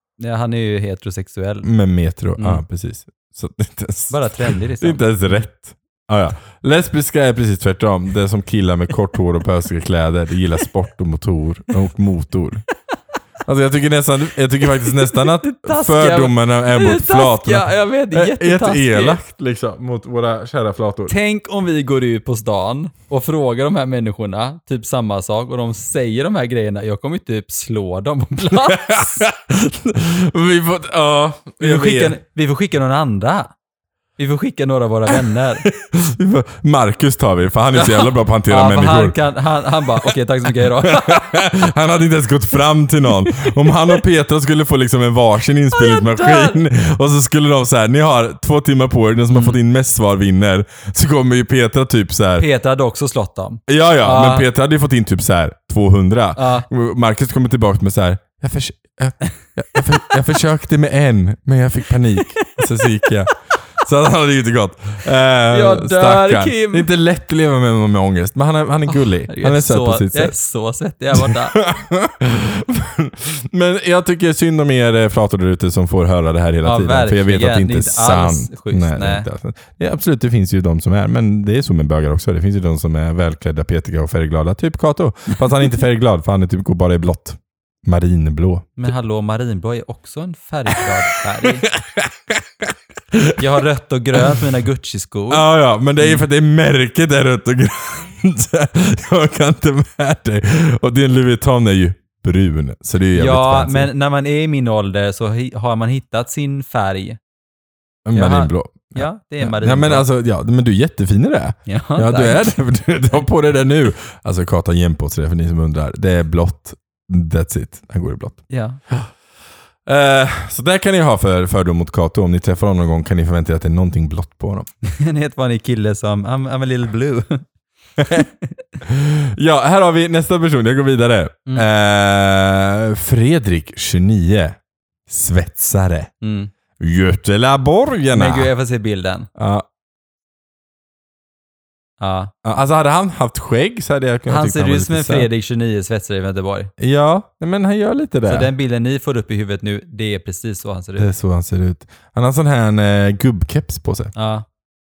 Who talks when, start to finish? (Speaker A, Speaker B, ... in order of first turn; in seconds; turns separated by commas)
Speaker A: 0.2-1.7, Speaker B: 1.6-12.7, Speaker A: 4.1-5.4, Speaker B: 13.4-21.1, Speaker A: 14.8-19.2, Speaker A: 21.1-29.2, Speaker B: 28.5-32.1, Speaker A: 31.6-33.5, Speaker A: 34.2-35.7, Speaker B: 35.1-39.2, Speaker A: 37.7-41.3, Speaker B: 39.9-52.5, Speaker A: 43.4-43.7, Speaker A: 45.7-46.6, Speaker A: 49.3-49.6, Speaker A: 52.4-54.5, Speaker B: 53.7-70.3, Speaker A: 56.4-56.7, Speaker A: 62.1-63.1, Speaker A: 65.5-66.9, Speaker A: 68.9-71.6, Speaker B: 71.1-88.9, Speaker A: 76.6-79.3, Speaker A: 88.8-91.7, Speaker B: 91.4-93.4, Speaker A: 93.4-95.5, Speaker B: 95.3-103.9, Speaker A: 103.1-107.2, Speaker B: 108.0-119.1, Speaker A: 108.1-110.1, Speaker A: 111.7-112.5, Speaker A: 118.5-118.8, Speaker B: 119.8-124.7, Speaker A: 124.8-127.4, Speaker A: 128.0-128.5, Speaker B: 128.8-136.1, Speaker A: 136.2-136.5, Speaker B: 136.8-138.5, Speaker A: 138.1-139.3, Speaker B: 139.3-139.7, Speaker A: 142.0-142.3, Speaker B: 142.4-145.3, Speaker A: 144.3-146.7, Speaker B: 146.8-148.5, Speaker A: 148.3-151.1, Speaker B: 151.0-154.1, Speaker A: 154.1-154.4